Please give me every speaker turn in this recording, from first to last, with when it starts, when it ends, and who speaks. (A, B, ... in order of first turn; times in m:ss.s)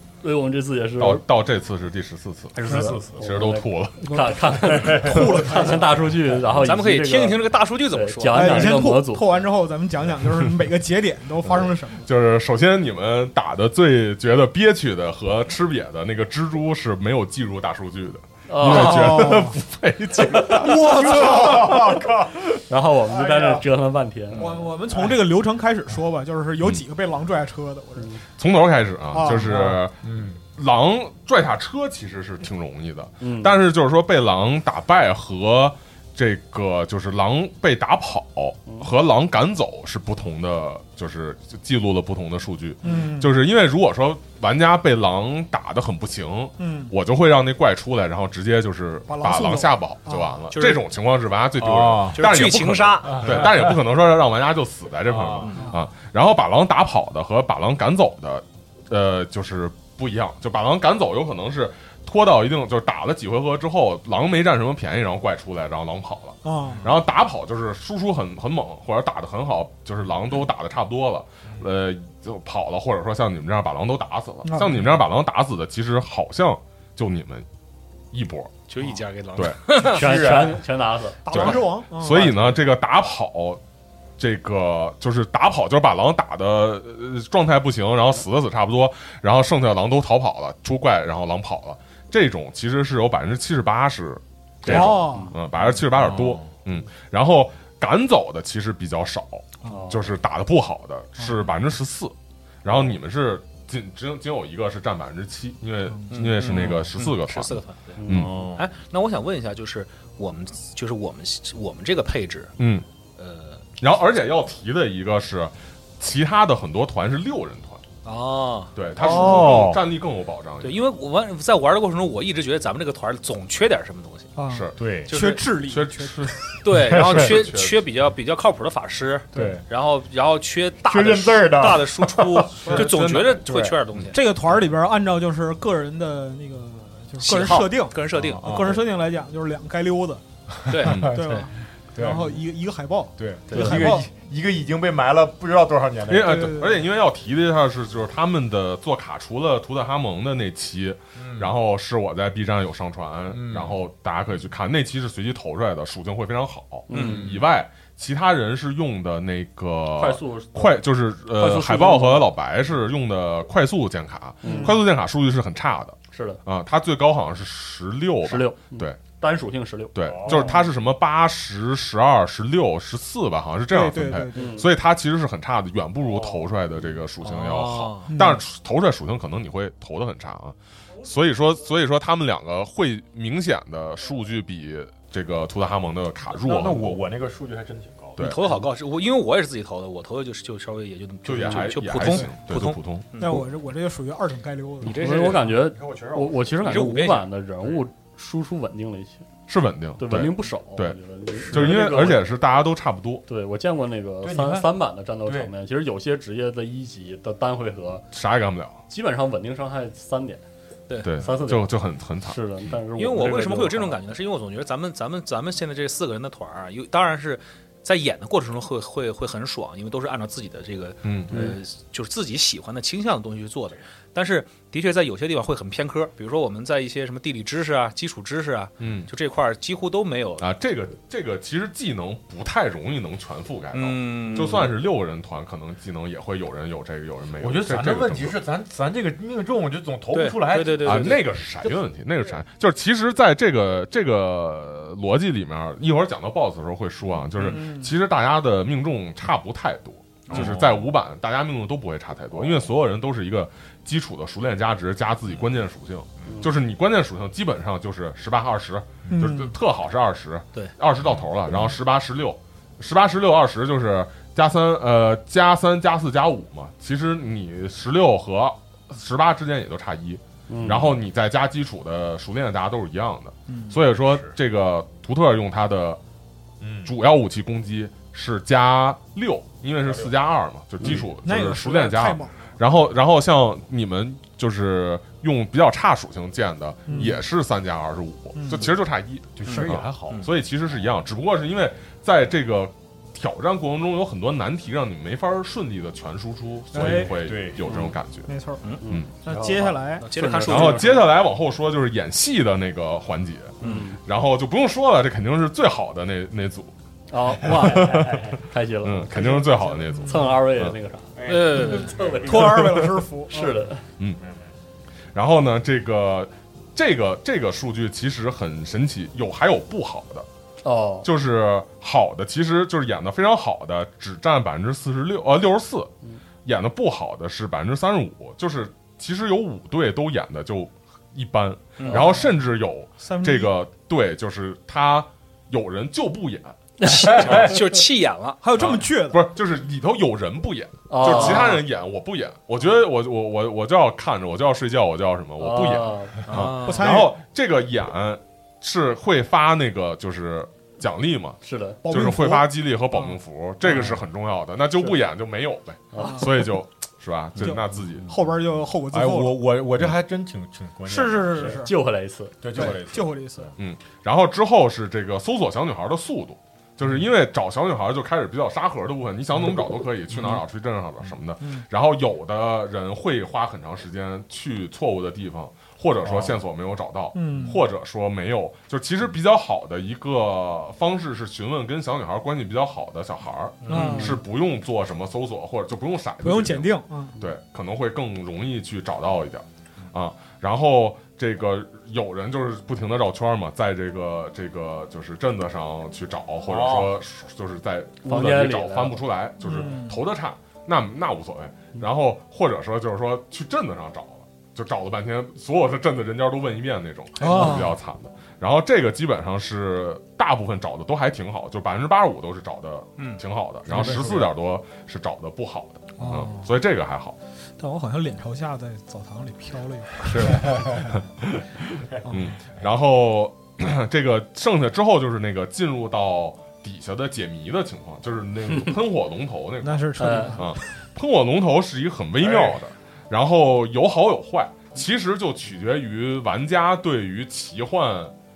0:00.2-0:01.2 A
0:01.0-0:04.1 B
0:02.5-0:03.5 C
0:02.6-0:09.4 A
0:04.1-0:04.3 D
0:04.5-0:05.6 C
0:04.9-0:06.0 D
0:06.6-0:08.7 E
0:08.3-0:12.1 D
0:12.0-0:22.4 B
0:18.5-0:19.4 A
0:18.6-0:19.6 D
0:20.5-0:21.8 D
0:20.6-0:22.5 C
0:22.7-0:24.6 A
0:23.1-0:23.7 C
0:24.4-0:28.2 D
0:24.4-0:25.2 C
0:28.4-0:30.0 B
0:29.1-0:29.7 D
0:29.4-0:30.4 C
0:30.6-1:17.5 B
0:33.2-0:33.6 A
0:42.8-0:43.4 D
0:46.6-0:46.9 D
0:49.1-0:50.4 D
0:50.5-0:50.8 E
0:51.6-0:53.8 C
0:52.1-0:53.5 E
0:55.1-0:55.5 C
0:55.4-0:55.7 E
1:06.4-1:06.9 D
1:14.4-1:14.9 D
1:18.1-1:18.6 B
1:18.7-1:20.3 E
1:19.4-1:19.6 B
1:19.8-1:20.6 C
1:19.8-1:21.6 A
1:21.2-1:22.5 D
1:21.3-1:23.6 B
1:24.2-1:48.3 B
1:34.6-1:35.4 A
1:34.7-1:35.4 D
1:35.6-1:36.5 C
1:39.6-1:40.0 A
1:46.1-1:48.0 E
1:46.4-1:46.9 C
1:48.0-1:48.4 A
1:48.1-1:48.6 C
1:48.6-1:52.6 E
1:52.6-1:52.9 B
1:53.2-1:53.7 E
1:53.8-1:57.8 B
1:58.0-1:58.7 E
1:58.8-2:00.8 B
1:59.0-1:59.8 C
2:00.6-2:04.3 E
2:04.4-2:06.6 D
2:04.5-2:04.8 B
2:04.8-2:05.1 C
2:05.1-2:05.5 E
2:05.6-2:07.8 B
2:06.6-2:14.2 E
2:06.7-2:07.5 C
2:09.3-2:09.6 D
2:09.3-2:09.6 C
2:10.9-2:12.9 C
2:12.7-2:14.1 B
2:13.4-2:13.8 C
2:14.1-2:20.2 D
2:17.2-2:18.8 E
2:18.2-2:18.8 C
2:20.7-2:21.3 C
2:20.7-2:21.5 E
2:20.8-2:21.2 B
2:21.1-2:24.1 D
2:22.0-2:22.4 C
2:23.2-2:26.6 C
2:23.5-2:23.9 E
2:26.1-2:49.0 B
2:26.1-2:26.8 D
2:31.2-2:31.5 C
2:33.3-2:33.8 C
2:36.9-2:37.3 A
2:36.9-2:37.3 E
2:36.9-2:37.4 C
2:40.0-2:40.8 A
2:41.4-2:42.3 A
2:44.4-2:44.8 A
2:44.4-2:44.8 D
2:46.1-2:46.4 A
2:48.2-2:50.6 A
2:49.9-3:07.0 B
2:50.0-2:50.6 C
2:53.7-2:54.6 D
2:54.3-2:54.7 A
2:56.0-2:56.5 C
2:57.2-2:58.1 E
2:58.1-2:58.4 D
3:06.3-3:08.3 C
3:08.2-3:08.5 B
3:08.2-3:13.4 E
3:11.2-3:13.1 B
3:12.0-3:12.3 D
3:13.2-3:15.0 D
3:14.8-3:15.6 E
3:14.8-3:19.2 A
3:15.0-3:16.9 C
3:16.6-3:17.3 E
3:19.5-3:21.0 B
3:20.0-3:22.1 A
3:21.4-3:22.2 C
3:21.5-3:23.2 B
3:23.3-3:28.0 A
3:24.2-3:24.7 C
3:25.2-3:25.5 C
3:28.1-3:28.8 B
3:28.9-3:30.4 A
3:31.0-3:32.4 B
3:31.2-3:34.0 A
3:32.9-3:50.5 E
3:41.0-3:41.4 B
3:41.3-3:41.6 A
3:48.8-3:49.1 B
3:50.4-3:58.4 B
3:53.7-3:54.7 E
3:57.4-4:01.2 C
4:00.1-4:01.2 E
4:00.8-4:36.0 B
4:07.4-4:07.9 D
4:10.3-4:10.9 C
4:19.1-4:19.5 D
4:30.5-4:30.9 A
4:33.5-4:33.8 D
4:33.9-4:34.4 C
4:36.6-4:36.9 C
4:36.8-4:58.3 B
4:39.8-4:40.1 C
4:40.8-4:41.1 C
4:41.0-4:42.4 D
4:46.9-4:47.2 D
4:48.4-4:48.7 D
4:49.4-4:50.2 C
4:49.5-4:50.3 E
4:56.7-4:57.1 D
4:56.8-4:58.0 C
4:58.3-4:58.7 D
4:58.8-5:01.0 A
4:59.2-5:00.1 D
5:00.0-5:01.0 E
5:00.5-5:06.7 B
5:03.6-5:03.9 E
5:03.6-5:04.0 A
5:07.1-5:13.8 A
5:07.4-5:10.8 B
5:09.9-5:10.4 D
5:11.2-5:12.9 C
5:11.3-5:12.0 E
5:12.1-5:13.6 D
5:14.2-5:14.5 C
5:15.2-5:20.3 B
5:20.6-5:21.1 A
5:21.0-5:25.9 B
5:26.4-5:36.6 B
5:31.8-5:32.1 E
5:31.9-5:32.3 D
5:33.0-5:33.5 D
5:36.8-5:38.4 E
5:36.8-5:37.1 A
5:37.2-5:37.4 C
5:37.2-5:37.5 B
5:38.4-5:39.3 D
5:38.6-5:58.1 B
5:40.9-5:41.6 A
5:45.4-5:46.2 A
5:46.3-5:47.0 E
5:46.6-5:47.2 D
5:51.4-5:51.8 A
5:51.8-5:52.5 D
5:55.9-5:56.3 A
5:56.0-5:56.3 D
5:57.4-5:59.5 D
5:58.0-5:58.4 C
5:58.9-6:01.7 C
6:00.8-6:01.7 D
6:01.4-6:02.7 A
6:02.4-6:03.5 C
6:02.5-6:03.5 D
6:03.6-6:57.2 B
6:06.8-6:07.1 C
6:10.1-6:10.4 C
6:16.0-6:16.4 C
6:17.1-6:17.6 D
6:23.6-6:24.2 C
6:23.7-6:24.2 D
6:26.2-6:27.2 D
6:36.5-6:36.9 C
6:38.0-6:39.0 A
6:39.4-6:40.0 D
6:47.2-6:47.7 D
6:53.7-6:54.3 C
6:53.7-6:54.1 D
6:56.0-6:56.5 D
6:57.6-7:01.0 D
7:00.1-7:18.1 B
7:00.4-7:00.8 C
7:02.0-7:02.3 D
7:09.6-7:10.6 D
7:10.0-7:10.4 A
7:12.2-7:12.6 C